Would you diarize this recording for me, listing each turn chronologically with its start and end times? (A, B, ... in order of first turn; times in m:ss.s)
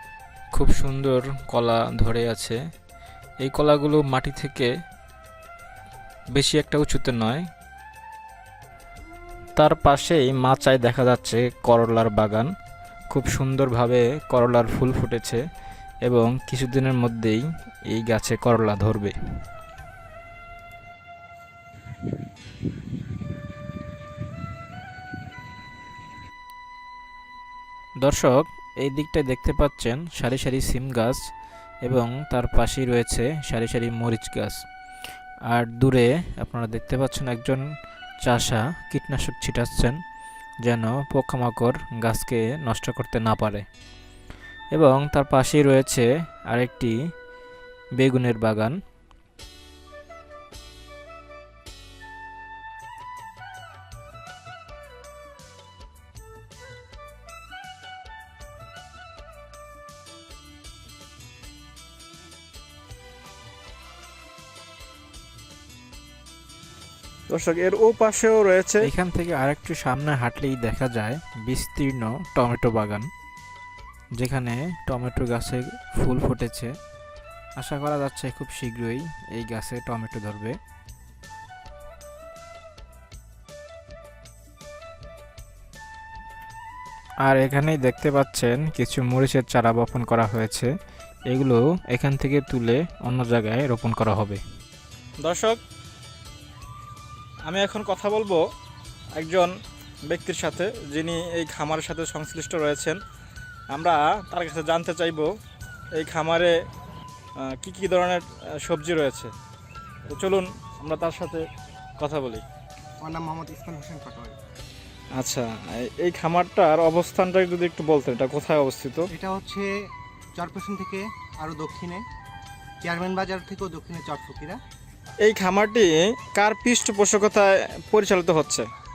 0:00.5-0:02.6 A
0:03.4-0:04.7 A
0:06.3-0:07.4 A
0:09.6-0:12.5 A
0:13.1-0:15.4 A
0:16.0-0:19.1 A
0:28.0-0:31.2 A
0:31.8-0:34.6 A
0:35.5-0:37.6 A
0:38.2-0:40.0 A
0:40.6-0:43.6 A
0:44.7-0:46.9 A
0:48.0-0:48.8 A
1:07.3-1:08.9 B
1:08.8-1:13.1 A
1:14.2-1:16.7 A
1:17.6-1:20.6 A
1:27.2-1:30.7 A
1:31.3-1:34.4 A
1:35.2-1:35.6 B
1:37.5-1:38.4 B
1:39.2-1:39.5 B
1:40.1-1:43.0 B
1:43.7-1:45.3 B
1:46.0-1:46.5 B
1:47.4-1:49.3 B
1:50.1-1:51.5 B
1:52.0-1:52.4 B
1:53.0-1:54.4 C
1:55.2-1:59.0 B
1:59.1-1:59.7 C
2:00.4-2:02.0 C
2:02.8-2:04.6 C
2:05.2-2:08.6 B
2:07.7-2:08.6 A